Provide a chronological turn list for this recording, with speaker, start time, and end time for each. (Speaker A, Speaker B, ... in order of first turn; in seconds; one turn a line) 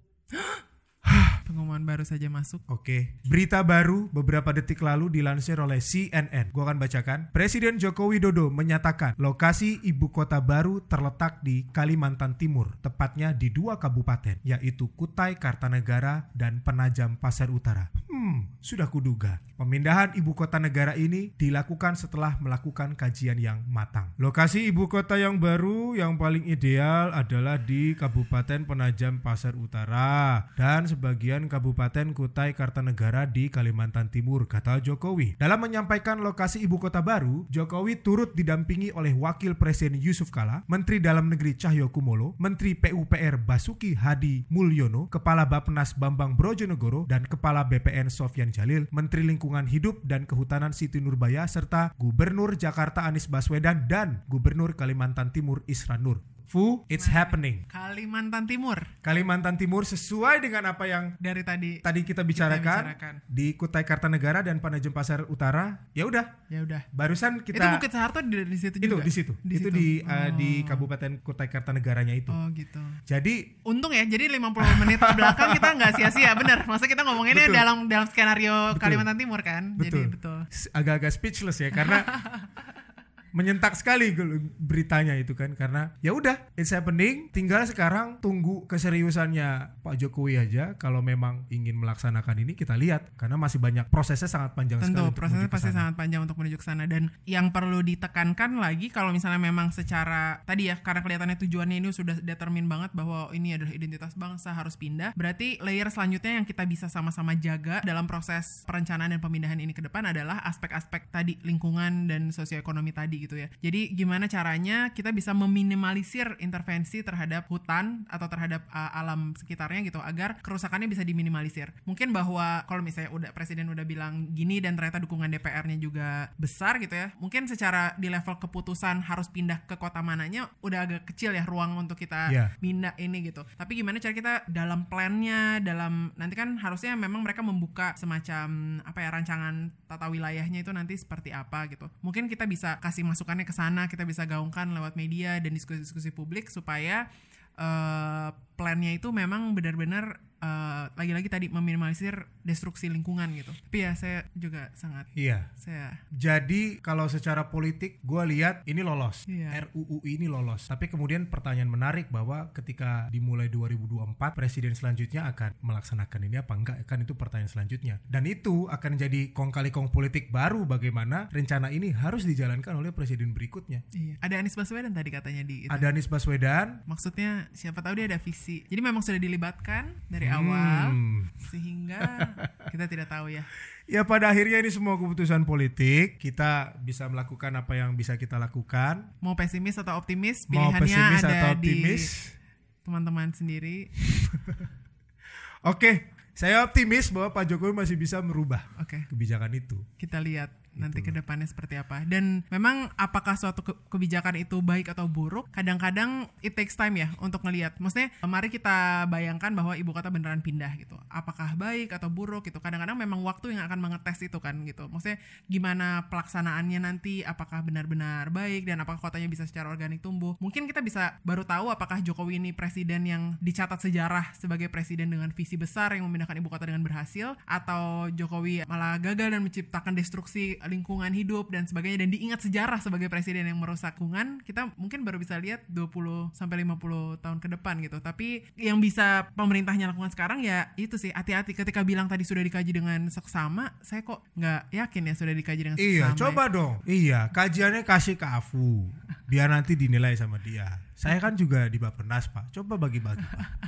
Speaker A: 0.3-0.6
Speaker B: 1.1-1.4
Speaker A: 1.4-2.6
Speaker B: 2.7-57.6
Speaker A: 57.0-58.9
Speaker B: 59.0-61.1
Speaker A: 61.2-63.2
Speaker B: 61.8-66.3
Speaker A: 66.5-66.9
Speaker B: 66.9-67.8
Speaker A: 67.5-70.9
Speaker B: 68.8-72.4
Speaker A: 72.3-73.0
Speaker B: 73.1-73.5
Speaker A: 73.6-80.5
Speaker B: 74.6-76.5
Speaker B: 77.2-77.6
Speaker B: 78.7-79.1
Speaker B: 79.8-82.1
Speaker A: 81.8-82.6
Speaker B: 83.3-95.9
Speaker A: 94.8-147.1
Speaker A: 147.6-156.0
Speaker B: 155.1-155.5
Speaker B: 156.1-173.8
Speaker A: 159.3-159.6
Speaker A: 173.9-175.9
Speaker B: 175.7-176.8
Speaker A: 176.9-183.5
Speaker B: 180.2-181.4
Speaker B: 182.0-182.6
Speaker B: 183.9-189.1
Speaker A: 189.2-192.1
Speaker B: 190.5-192.3
Speaker A: 192.8-193.9
Speaker B: 194.0-194.7
Speaker B: 195.6-199.9
Speaker A: 198.7-199.1
Speaker A: 200.0-246.4
Speaker B: 200.8-201.2
Speaker B: 245.8-253.5